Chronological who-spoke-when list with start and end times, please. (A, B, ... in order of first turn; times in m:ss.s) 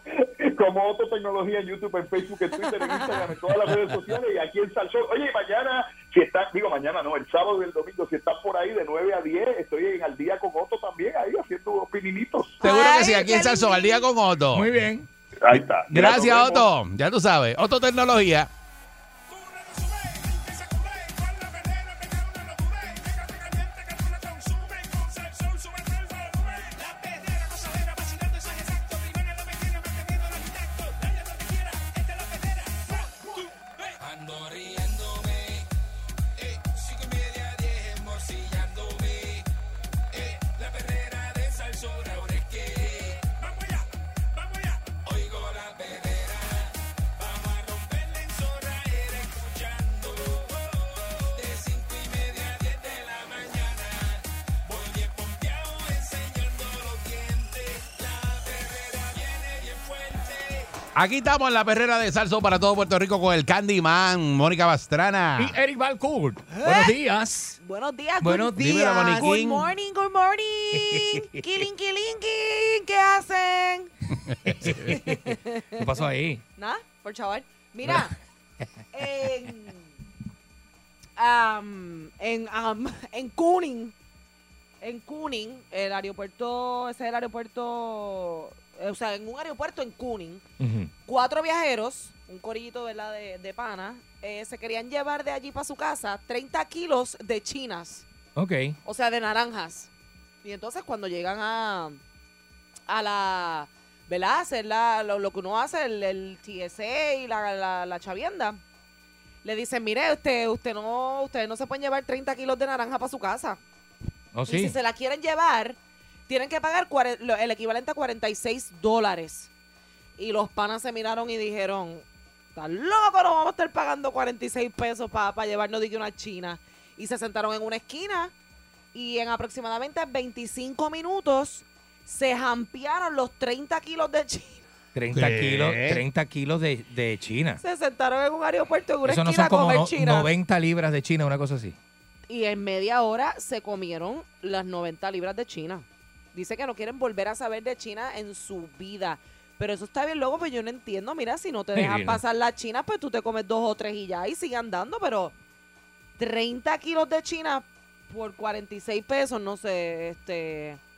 0:00.2-0:12.6 A
0:12.6-0:14.0 B
0:12.6-0:14.7 C
0:14.5-0:15.0 D
0:15.4-0:16.7 A
0:15.5-0:18.5 C
0:19.7-0:21.5 E
0:22.0-0:22.9 E
0:25.2-0:25.4 E
0:31.5-0:31.9 E
0:34.0-0:35.7 E
0:36.4-0:39.5 E
0:40.1-0:43.8 E
0:44.4-1:00.7 E
1:00.9-1:05.6 C
1:05.4-1:07.6 D
1:06.6-1:06.9 B
1:07.6-1:13.9 B
1:08.2-1:09.1 D
1:08.6-1:09.7 C
1:10.7-1:11.4 D
1:14.3-1:14.8 C
1:14.4-1:16.4 D
1:14.8-1:15.9 B
1:16.6-1:18.1 B
1:18.9-1:19.8 B
1:21.2-1:23.9 B
1:24.8-1:30.4 B
1:30.6-1:30.9 D
1:31.0-1:38.0 B
1:38.4-1:38.8 D
1:38.8-1:39.9 B
1:40.4-1:42.0 B
1:42.9-1:48.6 B
1:49.4-1:53.6 B
1:54.3-1:54.8 D
1:54.4-1:59.5 B
2:00.2-2:08.3 B
2:08.9-2:14.7 B
2:14.9-2:17.6 D
2:15.1-2:16.0 C
2:17.6-2:20.3 B
2:19.0-2:21.8 D
2:22.3-2:35.3 B
2:31.7-2:32.2 D
2:36.2-2:40.8 B